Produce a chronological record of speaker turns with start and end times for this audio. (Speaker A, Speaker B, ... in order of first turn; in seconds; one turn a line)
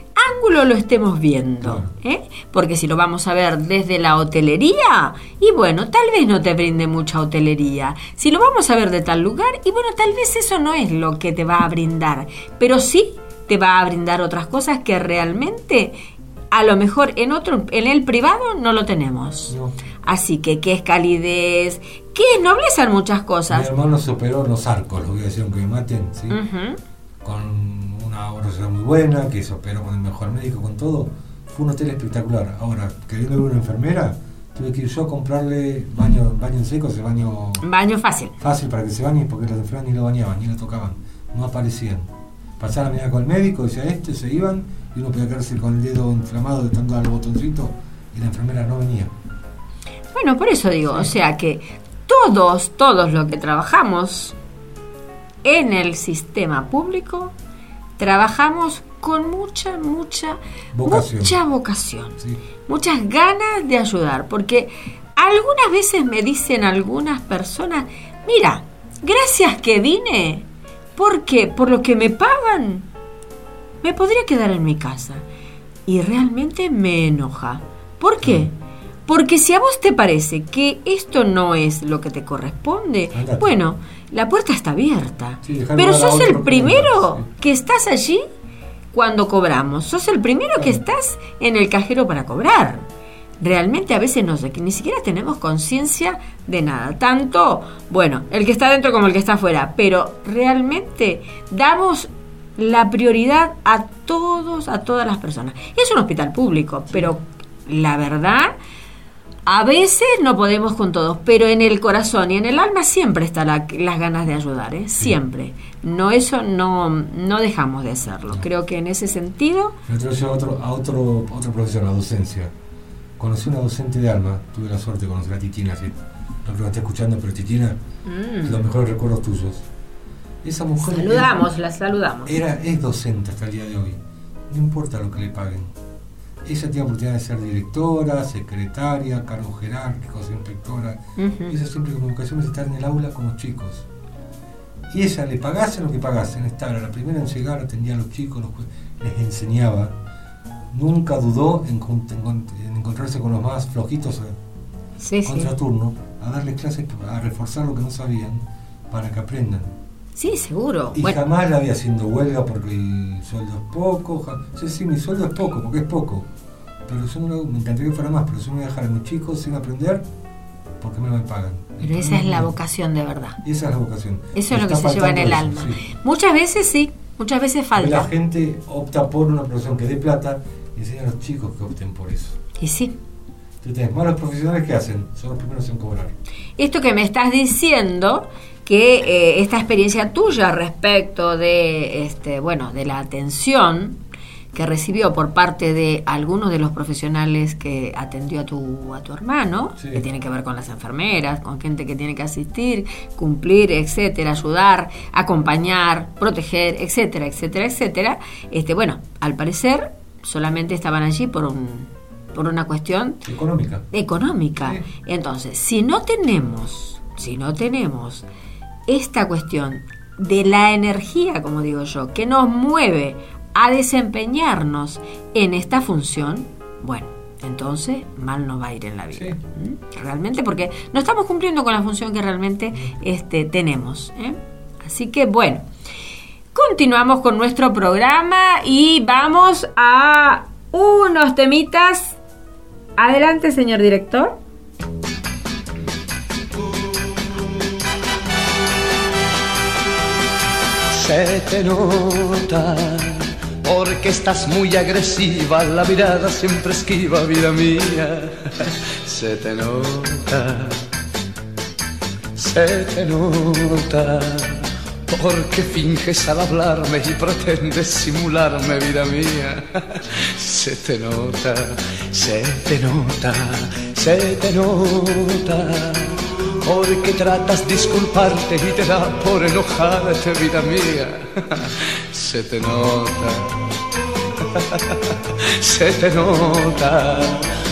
Speaker A: 0.1-16.0
Speaker B: 1.6-1.9
Speaker A: 16.5-23.7
Speaker B: 19.5-19.7
Speaker B: 23.5-26.4
Speaker A: 26.3-26.8
Speaker B: 27.2-37.6
Speaker A: 37.6-38.3
Speaker B: 38.4-42.1
Speaker B: 42.6-49.1
Speaker A: 50.1-54.3
Speaker A: 55.4-57.3
Speaker A: 58.0-62.1
Speaker B: 60.7-61.4
Speaker A: 62.7-70.5
Speaker A: 71.0-72.9
Speaker A: 73.8-75.2
Speaker A: 75.9-78.5
Speaker B: 78.2-78.5
Speaker A: 79.1-88.2
Speaker B: 83.1-83.6
Speaker B: 85.4-87.2
Speaker A: 88.9-92.8
Speaker A: 93.4-108.5
Speaker A: 109.5-119.8
Speaker B: 119.8-122.5
Speaker B: 123.2-127.8
Speaker A: 128.0-128.6
Speaker B: 128.4-129.6
Speaker B: 130.4-131.3
Speaker A: 130.8-132.3
Speaker B: 132.2-135.7
Speaker B: 136.4-143.8
Speaker A: 141.2-141.5
Speaker B: 144.9-149.9
Speaker B: 150.7-154.3
Speaker A: 155.0-155.5
Speaker B: 155.2-159.7
Speaker A: 160.2-161.2
Speaker B: 160.9-166.2
Speaker B: 166.9-170.0
Speaker B: 170.8-172.5
Speaker A: 171.8-173.4
Speaker B: 173.4-175.8
Speaker A: 174.3-178.1
Speaker B: 177.7-182.4
Speaker A: 182.6-182.9
Speaker B: 183.6-186.1
Speaker A: 186.6-194.0
Speaker A: 194.5-213.2
Speaker B: 199.8-200.0
Speaker B: 213.2-213.8
Speaker A: 213.9-218.2
Speaker A: 218.9-235.7
Speaker A: 236.5-242.2
Speaker A: 243.0-244.4
Speaker C: 250.9-253.1
Speaker C: 253.6-258.3
Speaker C: 259.1-260.7
Speaker C: 262.4-264.6
Speaker C: 265.1-269.6
Speaker C: 270.4-276.1
Speaker C: 276.6-281.2
Speaker C: 282.1-283.5
Speaker C: 285.6-287.3